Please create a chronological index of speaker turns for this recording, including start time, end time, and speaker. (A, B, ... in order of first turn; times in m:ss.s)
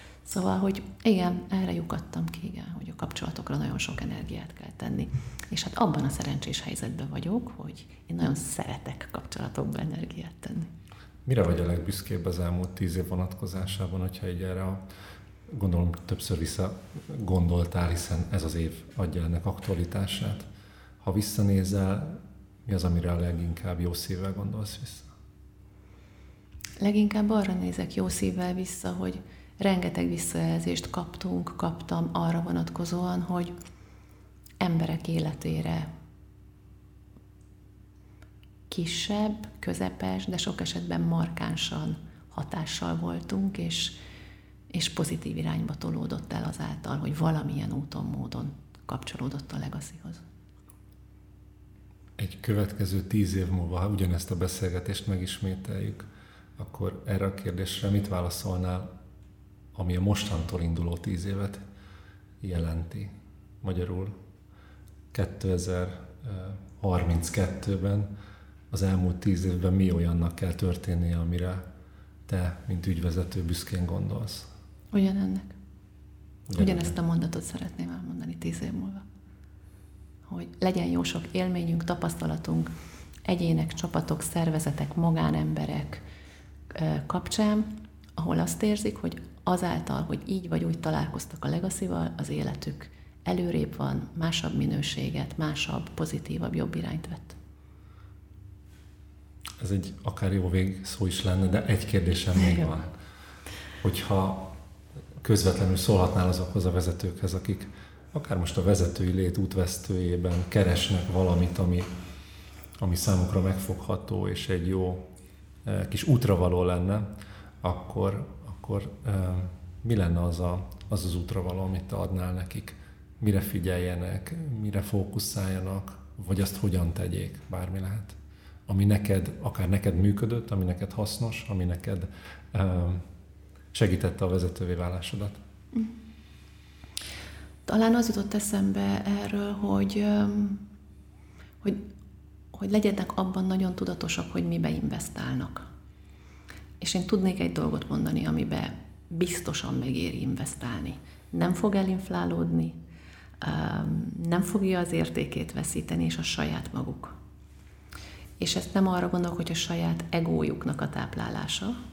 0:00.2-0:10.7 A
0:11.3-0:14.8 B
0:15.5-0:20.5 B
0:21.0-0:25.1 B
0:26.8-0:33.5 A
0:34.6-0:35.9 A
0:38.7-0:44.0 A
0:44.7-0:50.2 A
0:52.2-0:58.9 B
0:59.8-1:01.6 B
1:02.4-1:04.2 B
1:05.1-1:08.1 B
1:08.7-1:11.6 B
1:12.3-1:14.5 B
1:14.9-1:15.6 A
1:16.5-1:16.9 B
1:16.6-1:19.0 A
1:20.3-1:22.7 A
1:23.2-1:26.0 A
1:26.7-1:37.4 A
1:39.6-1:42.9 B
1:43.8-1:44.5 B
1:45.2-1:51.9 B
1:52.8-1:55.1 B
1:55.6-1:57.1 B
1:57.6-2:13.0 B
2:13.7-2:15.4 B
2:17.7-2:20.6 A
2:22.5-2:25.7 A
2:26.8-2:32.8 A
2:33.4-2:37.2 A
2:38.4-2:41.8 A